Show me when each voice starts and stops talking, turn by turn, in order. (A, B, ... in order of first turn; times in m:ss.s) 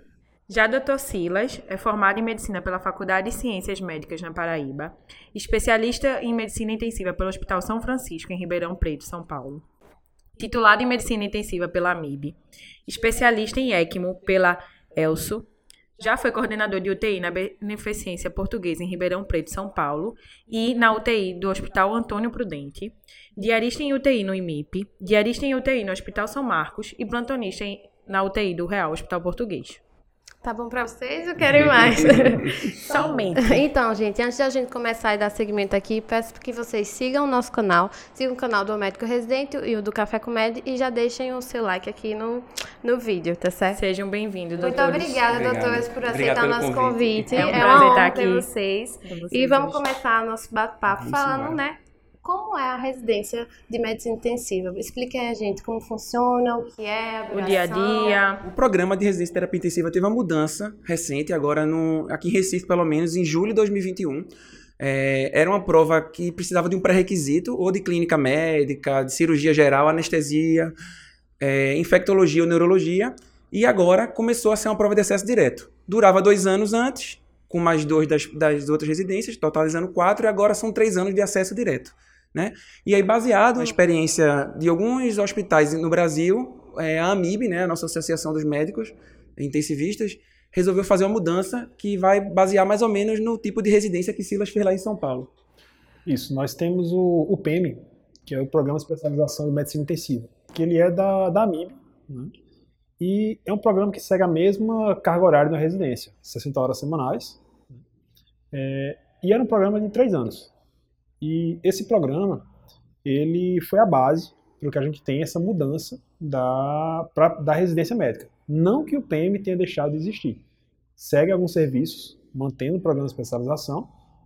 0:00.5-0:09.7 A
0:10.4-0:29.8 A
0:30.4-0:43.8 B
0:32.0-0:32.5 C
0:32.9-0:33.6 A
0:43.7-0:45.2 A
0:44.6-0:58.2 B
0:45.2-0:47.9 C
0:47.3-0:48.5 A
0:49.0-0:49.8 A
0:50.9-0:51.6 C
0:57.3-0:58.5 A
0:58.4-1:04.3 C
1:04.8-1:10.7 C
1:11.4-1:35.3 C
1:36.1-1:42.3 D
1:43.0-1:47.8 D
1:48.5-1:50.5 D
1:51.2-1:52.5 D
1:53.0-2:00.4 D
2:01.0-2:03.9 D